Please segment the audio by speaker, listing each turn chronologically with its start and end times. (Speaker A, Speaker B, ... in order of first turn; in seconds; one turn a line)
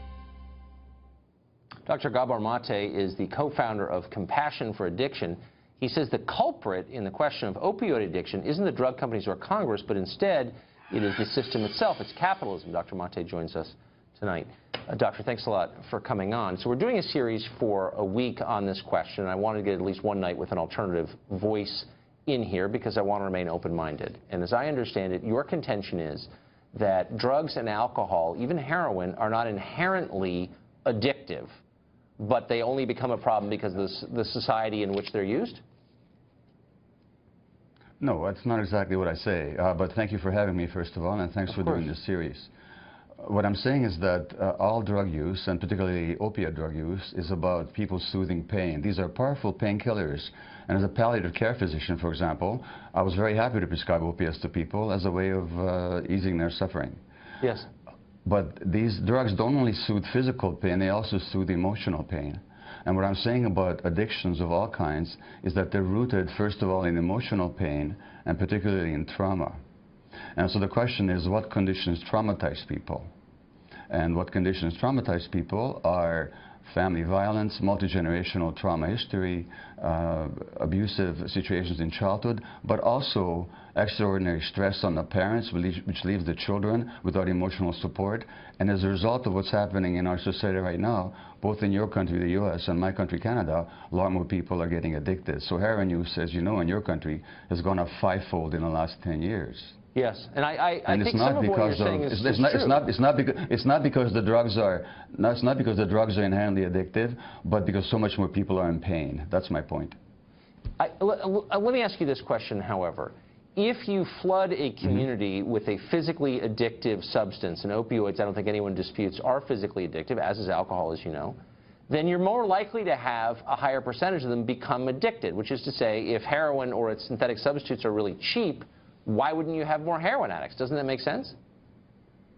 Speaker A: 1.9-31.5
Speaker A: 32.2-35.6
Speaker B: 38.0-42.5
Speaker A: 41.5-41.8
Speaker B: 43.2-57.0
Speaker A: 57.4-57.7
Speaker B: 58.2-69.6
Speaker B: 70.3-73.1
Speaker B: 73.9-99.7
Speaker A: 99.9-102.8
Speaker B: 100.9-110.0
Speaker A: 110.8-121.4
Speaker A: 121.9-131.3